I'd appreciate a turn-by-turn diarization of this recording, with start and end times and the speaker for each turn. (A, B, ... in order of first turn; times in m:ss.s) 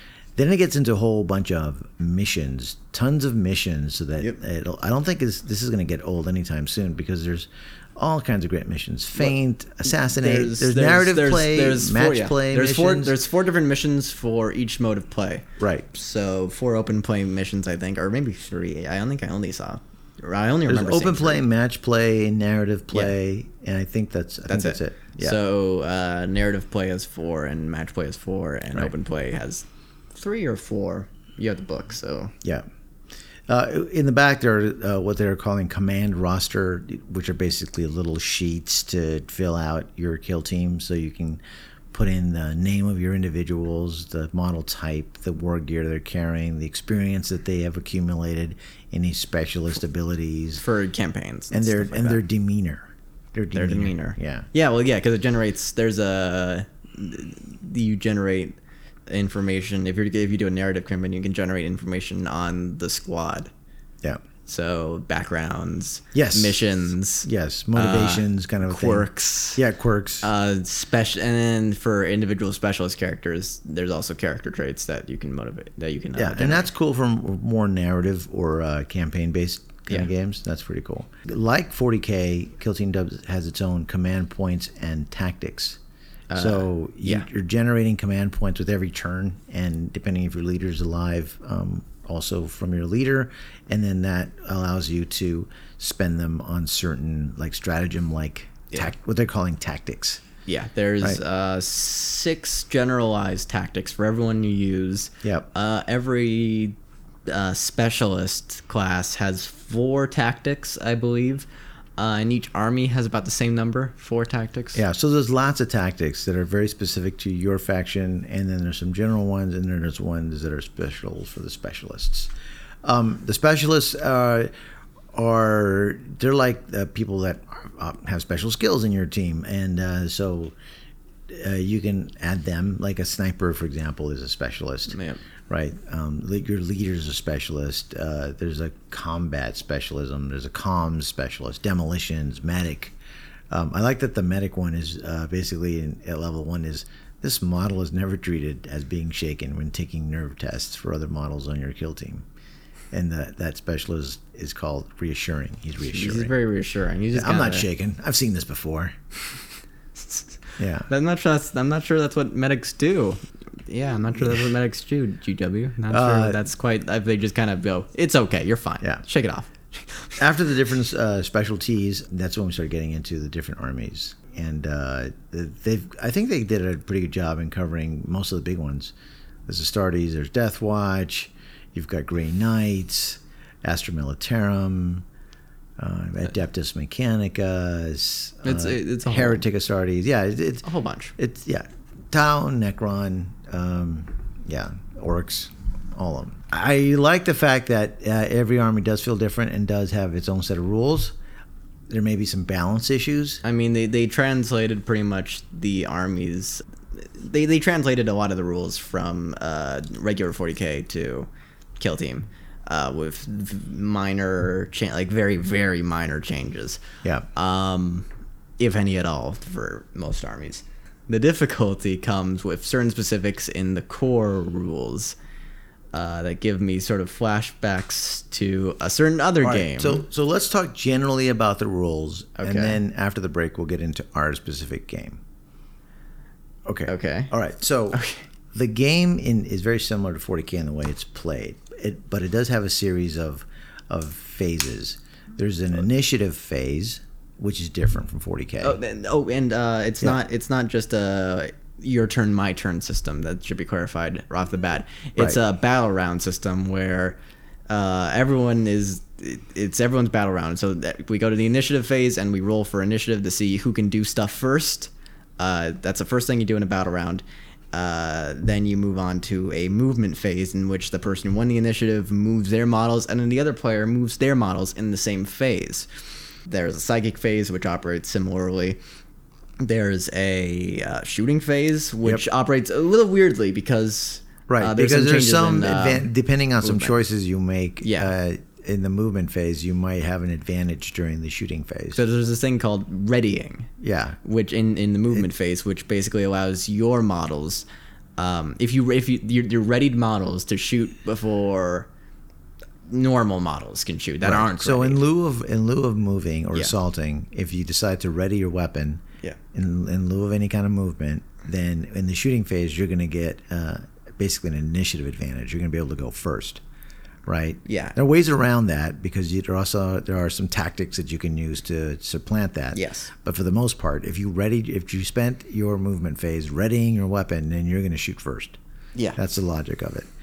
0:00.4-0:13.2 A
0:09.9-0:21.4 B
0:15.6-0:15.9 A
0:20.7-0:25.4 A
0:24.5-0:32.3 B
0:33.5-0:41.4 A
0:41.9-0:50.6 A
0:50.6-0:52.2 B
0:51.5-0:54.5 A
0:53.6-0:58.6 B
0:59.1-1:03.5 B
1:04.5-1:09.6 B
1:06.1-1:06.7 A
1:07.2-1:10.3 A
1:10.2-1:16.7 B
1:16.2-1:25.8 A
1:26.3-1:27.3 B
1:26.3-1:40.2 A
1:40.5-1:46.8 B
1:45.2-1:45.5 A
1:47.3-1:54.8 B
1:54.8-2:02.3 A
2:02.8-2:04.5 A
2:05.1-2:10.6 A
2:11.3-2:15.0 A
2:14.9-2:15.2 B
2:15.5-2:23.0 A
2:23.5-2:32.2 A
2:32.9-2:36.4 A
2:35.9-2:37.7 B
2:37.1-2:39.0 A
2:40.0-2:50.2 B
2:40.6-2:40.9 A
2:45.9-2:46.4 A
2:50.2-2:58.9 A
2:59.5-3:05.0 A
3:05.8-3:10.6 A
3:08.4-3:09.4 B
3:10.6-3:11.1 B
3:11.2-3:21.2 A
3:21.9-3:23.4 A
3:23.4-3:36.8 B
3:37.3-3:38.1 B
3:38.6-3:45.2 B
3:45.9-3:50.0 B
3:49.4-3:55.2 A
3:52.4-3:52.8 B
3:56.7-3:58.0 A
3:56.9-3:57.3 B
3:57.9-3:58.2 B
3:58.5-4:08.8 A
4:08.6-4:17.2 B
4:17.7-4:35.9 B
4:36.5-4:38.8 B
4:39.6-4:46.9 B
4:44.5-4:52.0 A
4:47.8-4:48.1 B
4:51.9-4:53.7 B
4:53.8-4:54.2 A
4:54.2-4:57.7 B
4:58.2-5:01.9 B
5:02.9-5:05.0 B
5:04.2-5:16.6 A
5:17.3-5:28.6 A
5:17.7-5:18.0 B
5:22.7-5:23.1 B
5:29.2-5:30.1 A